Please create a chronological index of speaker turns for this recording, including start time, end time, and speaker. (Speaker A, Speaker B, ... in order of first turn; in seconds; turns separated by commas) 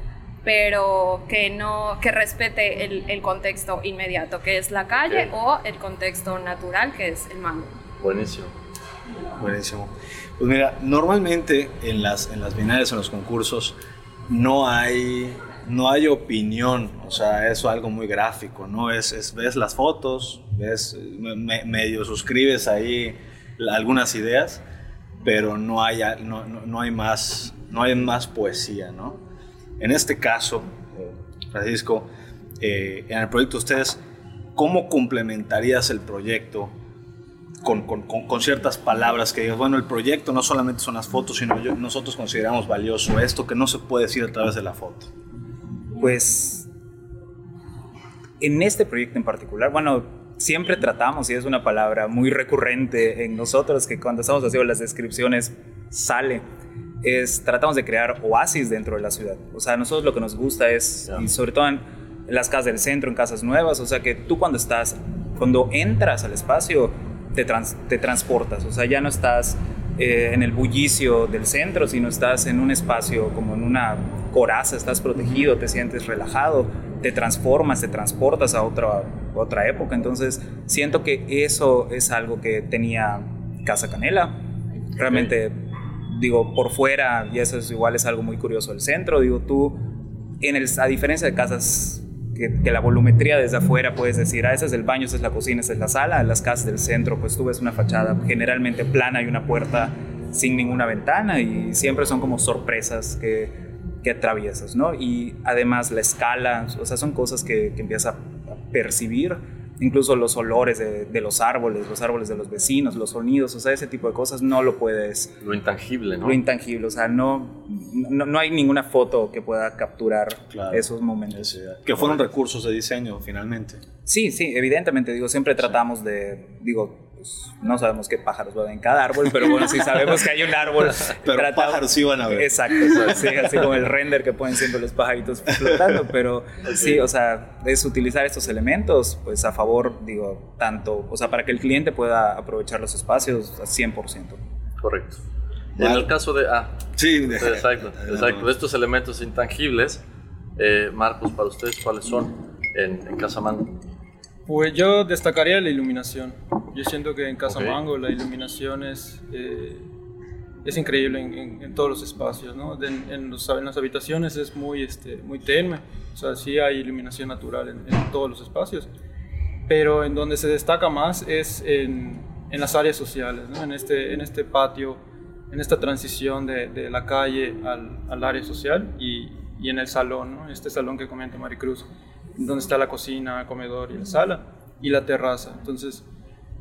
Speaker A: 0.4-7.8, Speaker B: 8.0-8.5, Speaker C: 9.4-13.8, Speaker C: 14.3-24.6, Speaker C: 25.2-29.2, Speaker C: 29.8-32.1, Speaker C: 32.6-34.0, Speaker C: 34.5-36.7, Speaker C: 37.6-45.1, Speaker D: 46.0-46.7, Speaker D: 48.4-56.4, Speaker D: 57.0-84.3, Speaker D: 85.0-85.6, Speaker D: 86.1-89.8, Speaker D: 90.4-115.3, Speaker B: 115.4-116.4, Speaker D: 116.2-121.5, Speaker C: 120.5-123.8, Speaker D: 124.0-144.4, Speaker C: 131.0-133.1, Speaker B: 132.9-133.2, Speaker B: 136.6-137.1, Speaker B: 144.8-145.2, Speaker C: 145.8-146.1, Speaker B: 145.8-150.0, Speaker C: 146.9-148.5, Speaker B: 150.6-153.7, Speaker E: 154.4-159.8, Speaker B: 157.4-157.8, Speaker E: 160.6-168.9, Speaker E: 169.7-186.1